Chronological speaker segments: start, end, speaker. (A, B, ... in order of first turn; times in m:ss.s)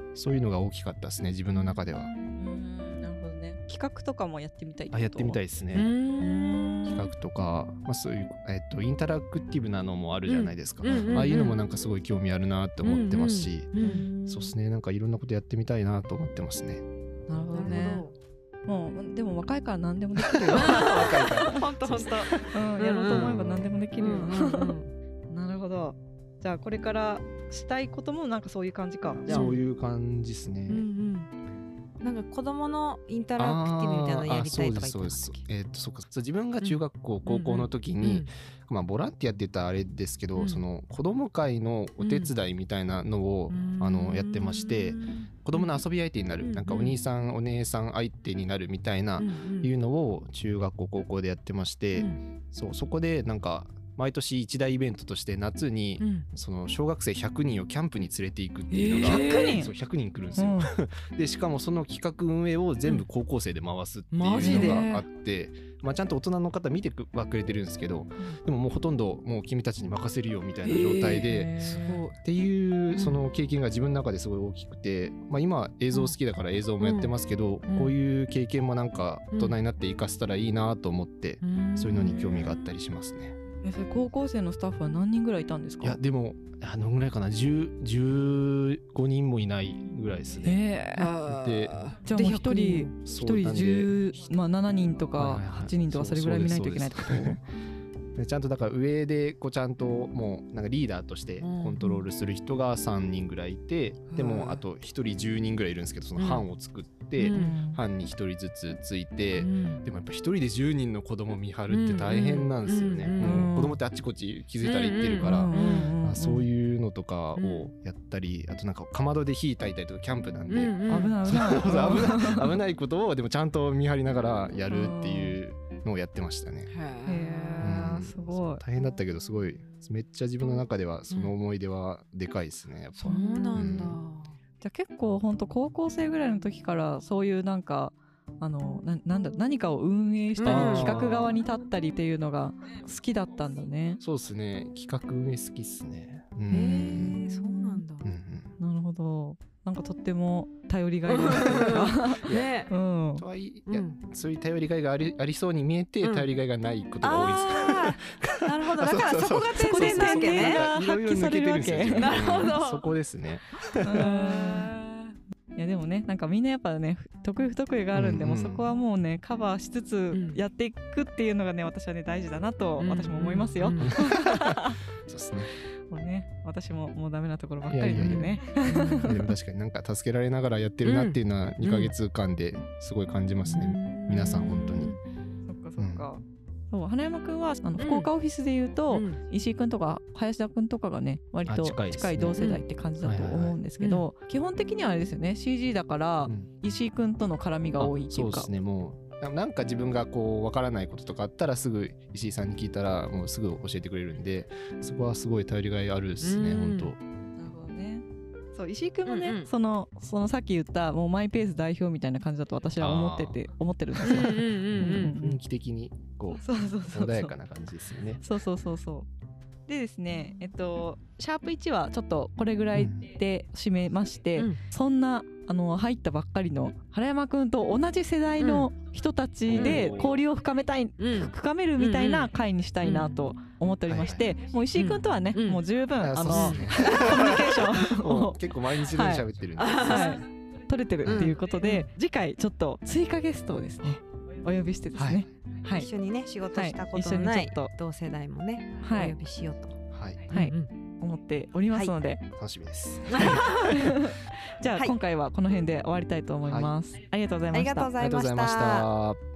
0:00.1-0:02.1 A
0:01.7-0:05.4 B
0:04.9-0:05.9 A
0:05.7-0:06.9 C
0:06.2-0:07.1 B
0:06.8-0:16.8 A
0:10.3-0:11.6 C
0:12.8-0:14.5 C
0:13.8-0:14.1 B
0:17.3-0:18.0 B
0:17.5-0:18.1 C
0:18.6-0:24.8 B
0:20.2-0:23.8 A
0:20.5-0:23.4 C
0:24.0-0:24.9 C
0:25.3-0:29.5 B
0:29.2-0:30.9 A
0:29.3-0:29.6 C
0:30.7-0:31.3 C
0:32.0-0:35.4 C
0:33.4-1:23.4 A
0:36.6-0:38.3 C
0:40.3-0:40.6 C
0:42.0-0:42.3 C
0:43.5-0:45.7 C
0:46.4-0:47.0 C
0:49.2-0:49.7 C
0:56.0-0:56.2 C
0:58.7-0:59.7 C
0:59.0-0:59.7 B
1:00.4-1:00.7 B
1:04.1-1:05.0 C
1:04.4-1:04.8 B
1:10.6-1:12.2 C
1:12.9-1:13.2 C
1:15.9-1:16.2 C
1:16.8-1:17.1 C
1:17.7-1:17.9 C
1:19.3-1:19.6 C
1:21.4-1:22.6 C
1:23.6-1:26.0 B
1:25.8-1:30.6 A
1:30.4-1:31.1 B
1:31.0-1:33.0 C
1:31.2-1:31.8 A
1:32.0-1:37.4 B
1:33.0-1:34.0 A
1:35.1-1:37.4 A
1:38.2-2:06.7 A
1:41.4-1:42.1 C
1:44.1-1:44.6 C
1:46.2-1:46.4 C
1:47.2-1:47.6 C
1:47.2-1:47.8 B
1:49.4-1:49.8 C
1:51.7-1:53.6 C
1:53.2-1:53.8 B
1:54.6-1:55.9 C
1:55.2-1:56.5 B
1:57.4-1:57.7 C
2:00.5-2:01.2 C
2:00.9-2:02.5 B
2:04.7-2:05.4 B
2:06.7-2:07.7 C
2:07.0-2:08.6 B
2:07.6-2:14.0 A
2:11.1-2:11.3 C
2:13.0-2:14.4 C
2:13.0-2:13.7 B
2:14.6-2:24.0 B
2:20.4-2:21.0 C
2:20.4-2:21.4 A
2:24.0-2:27.2 A
2:26.5-2:28.0 C
2:26.9-2:27.8 B
2:28.0-2:28.5 A
2:28.6-2:33.2 B
2:31.1-2:32.7 C
2:31.4-2:32.6 A
2:33.1-2:44.0 A
2:33.7-2:34.0 C
2:36.0-2:36.3 C
2:37.0-2:40.7 C
2:39.5-2:42.2 B
2:41.9-2:42.9 C
2:43.8-2:44.7 B
2:43.9-2:45.2 C
2:45.5-2:54.8 B
2:47.9-2:48.7 A
2:50.1-2:50.4 C
2:52.8-2:53.9 C
2:53.8-2:55.5 A
2:55.9-2:59.2 B
2:57.6-3:04.9 A
2:58.0-2:59.1 C
3:00.8-3:01.9 C
3:03.4-3:05.0 C
3:05.5-3:18.5 B
3:05.8-3:06.1 A
3:07.8-3:08.1 C
3:08.9-3:09.2 C
3:11.4-3:13.6 A
3:12.4-3:12.6 C
3:13.8-3:14.1 C
3:17.8-3:27.0 A
3:26.2-3:26.9 C
3:27.4-3:35.4 B
3:29.0-3:29.5 C
3:32.8-3:33.4 A
3:34.0-3:35.1 C
3:34.0-3:38.2 A
3:36.3-3:37.3 B
3:38.2-3:39.1 B
3:39.7-3:58.4 B
3:42.7-3:43.1 A
3:48.4-3:48.7 C
3:49.5-3:50.2 A
3:49.5-3:49.9 C
3:51.0-3:52.3 C
3:52.8-3:53.2 C
3:53.9-3:54.3 A
3:54.7-3:55.6 C
3:56.0-4:00.0 A
3:56.3-3:57.4 C
3:58.9-3:59.2 B
3:59.0-4:00.2 C
3:59.7-4:05.9 B
4:01.0-4:01.4 A
4:01.0-4:01.9 C
4:05.0-4:05.2 A
4:05.7-4:09.8 C
4:06.5-4:07.7 B
4:08.8-4:09.2 B
4:09.9-4:10.3 A
4:10.3-4:12.2 B
4:10.3-4:10.7 C
4:11.7-4:12.0 C
4:12.4-4:13.4 A
4:13.1-4:13.7 C
4:13.1-4:17.9 B
4:16.4-4:16.7 A
4:17.5-4:18.9 C
4:18.0-4:19.2 A